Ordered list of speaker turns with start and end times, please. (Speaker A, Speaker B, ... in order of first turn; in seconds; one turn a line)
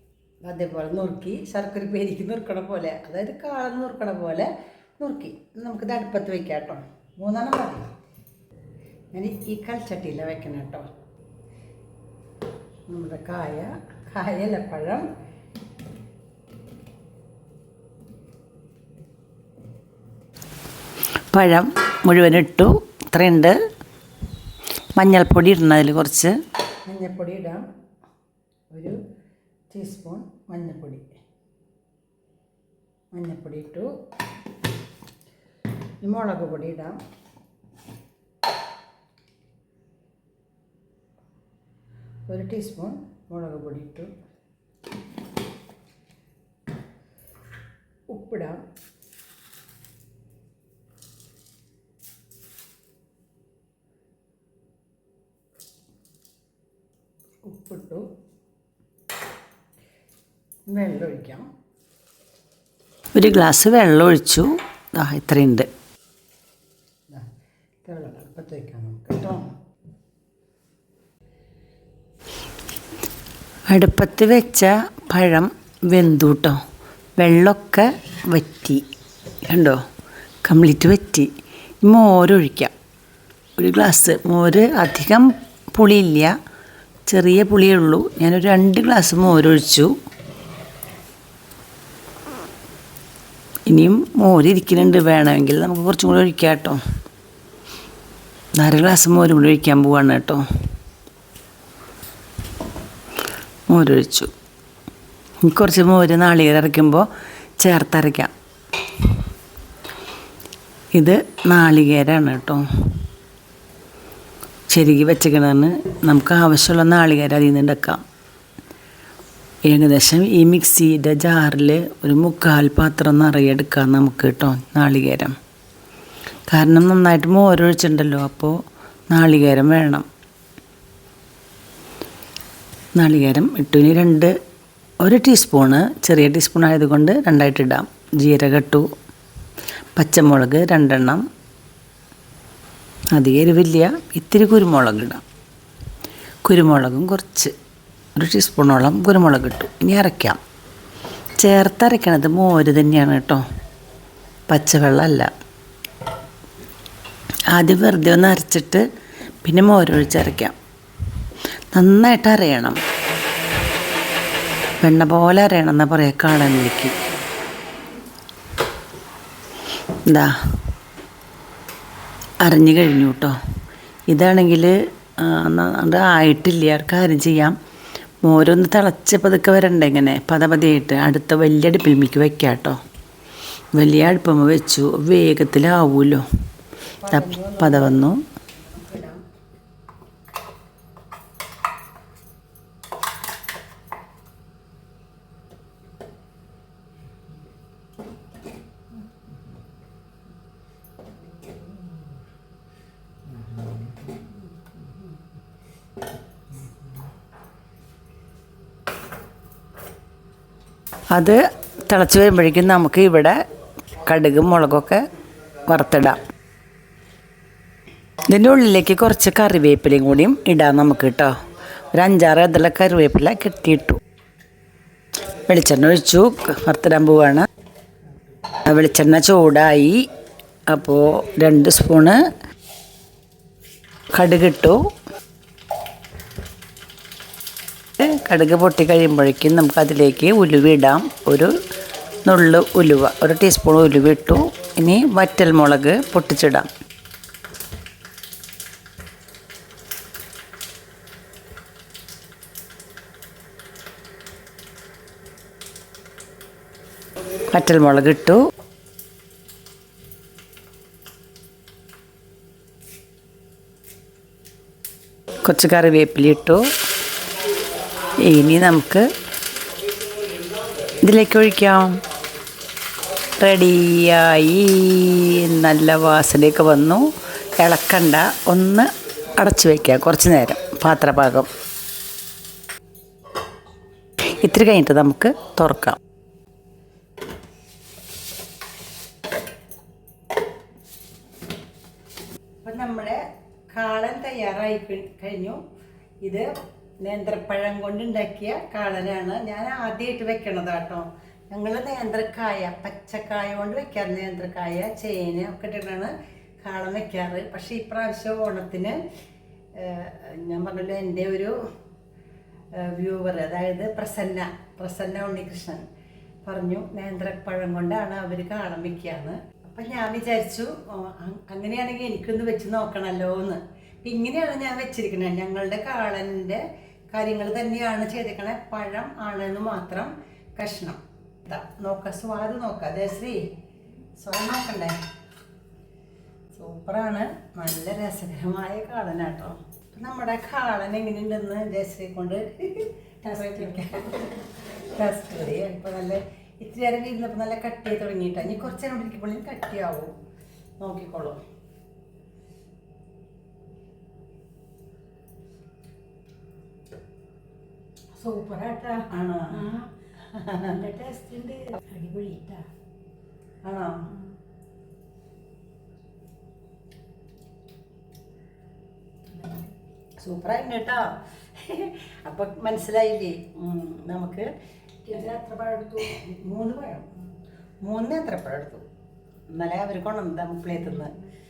Speaker A: 0.4-7.9
Speaker A: 9.1-10.8
Speaker A: 12.9-15.1
Speaker B: 21.3-23.5
Speaker B: 25.0-26.3
Speaker A: 26.9-27.6
Speaker A: 28.7-28.9
Speaker A: 29.7-31.0
Speaker A: 33.1-33.9
Speaker A: 36.0-37.0
Speaker A: 42.3-44.1
Speaker A: 48.1-48.6
Speaker A: 57.5-58.0
Speaker A: 60.7-61.5
Speaker B: 63.1-65.7
Speaker A: 67.8-69.4
Speaker B: 73.7-76.6
Speaker B: 77.2-78.8
Speaker B: 79.5-79.8
Speaker B: 80.4-81.3
Speaker B: 81.8-82.7
Speaker B: 83.6-86.3
Speaker B: 87.1-89.9
Speaker B: 93.7-96.8
Speaker B: 98.6-100.4
Speaker B: 103.7-104.3
Speaker B: 105.4-107.1
Speaker B: 107.6-108.3
Speaker B: 111.0-112.6
Speaker B: 114.7-118.0
Speaker B: 119.7-125.3
Speaker B: 126.5-128.5
Speaker B: 129.1-130.0
Speaker B: 133.0-134.3
Speaker B: 135.0-138.9
Speaker B: 140.0-141.2
Speaker B: 143.1-145.2
Speaker B: 146.4-147.5
Speaker B: 148.2-150.4
Speaker B: 151.4-153.4
Speaker B: 154.5-155.3
Speaker B: 157.5-158.8
Speaker B: 159.4-160.6
Speaker B: 161.7-162.8
Speaker B: 164.8-166.9
Speaker B: 170.1-170.3
Speaker B: 172.4-173.3
Speaker B: 174.1-177.5
Speaker B: 178.2-182.8
Speaker B: 183.8-186.2
Speaker A: 187.0-189.2
Speaker B: 187.1-188.2
Speaker B: 211.1-213.3
Speaker B: 214.1-215.0
Speaker B: 215.7-216.2
Speaker B: 218.3-221.3
Speaker B: 221.9-224.0
Speaker B: 225.5-227.4
Speaker B: 228.6-230.1
Speaker B: 230.7-232.2
Speaker B: 234.1-234.8
Speaker B: 238.0-241.5
Speaker B: 242.2-246.7
Speaker B: 257.5-258.4
Speaker B: 265.4-266.6
Speaker B: 268.2-269.0
Speaker B: 271.0-272.0
Speaker B: 273.4-277.0
Speaker B: 277.6-281.5
Speaker B: 284.2-286.0
Speaker A: 292.6-293.2
Speaker A: 293.7-295.6
Speaker A: 297.0-309.0
Speaker A: 309.8-311.5
Speaker A: 312.8-315.8
Speaker A: 316.4-333.4
Speaker A: 334.1-334.9
Speaker A: 336.5-350.1
Speaker A: 350.8-351.4
Speaker C: 358.1-359.9
Speaker A: 359.1-359.6
Speaker A: 360.2-360.8
Speaker C: 360.6-362.7
Speaker A: 363.6-364.0
Speaker C: 369.3-369.7
Speaker A: 370.2-374.5
Speaker A: 375.0-377.1
Speaker C: 375.3-376.0
Speaker A: 377.8-378.8
Speaker A: 379.5-381.2